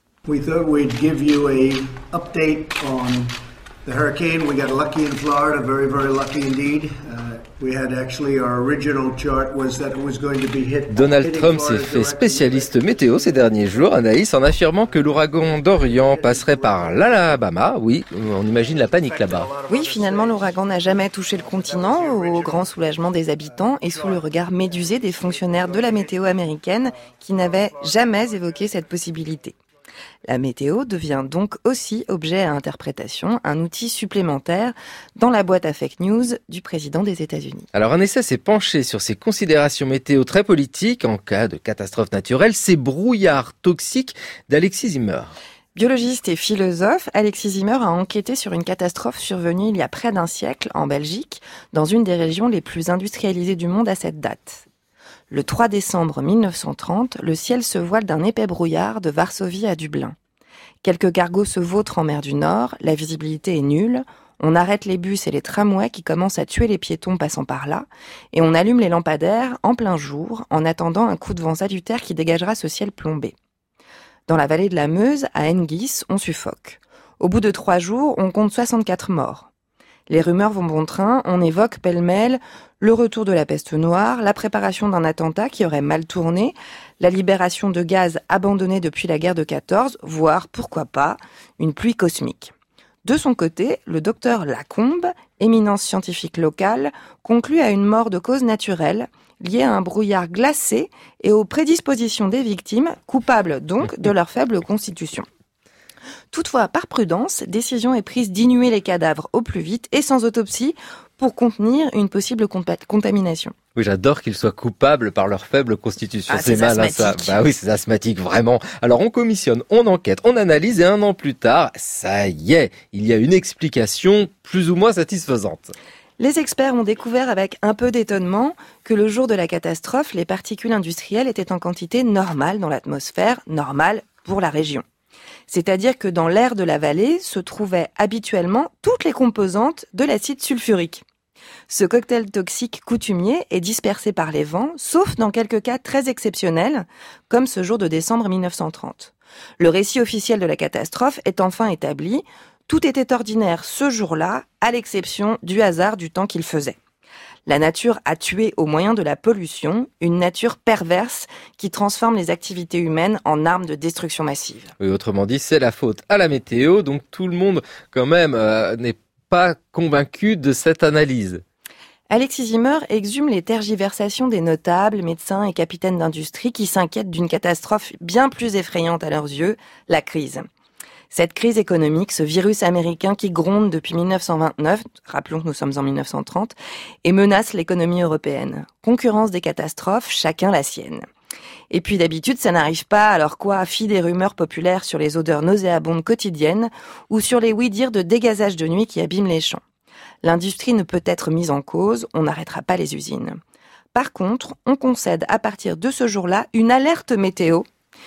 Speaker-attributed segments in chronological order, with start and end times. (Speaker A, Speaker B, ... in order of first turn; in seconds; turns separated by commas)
Speaker A: 0.2-13.7, Speaker B: 10.9-19.5, Speaker A: 15.2-17.4, Speaker A: 18.8-20.5, Speaker C: 19.7-29.6, Speaker A: 21.5-22.7, Speaker A: 23.9-26.3, Speaker A: 27.4-28.5, Speaker C: 30.3-37.7, Speaker B: 37.7-45.3, Speaker C: 45.8-54.6, Speaker C: 55.3-60.1, Speaker C: 60.8-73.3, Speaker C: 74.3-79.5, Speaker C: 80.1-92.5, Speaker C: 93.0-105.3, Speaker C: 106.3-113.5, Speaker B: 113.8-125.7, Speaker C: 116.3-117.5, Speaker C: 126.2-134.8, Speaker C: 135.5-141.0, Speaker C: 141.7-156.8, Speaker C: 157.5-164.7, Speaker B: 164.8-171.4, Speaker C: 172.1-180.4, Speaker C: 181.1-191.0, Speaker C: 191.7-199.6, Speaker C: 200.2-203.4, Speaker C: 203.9-207.7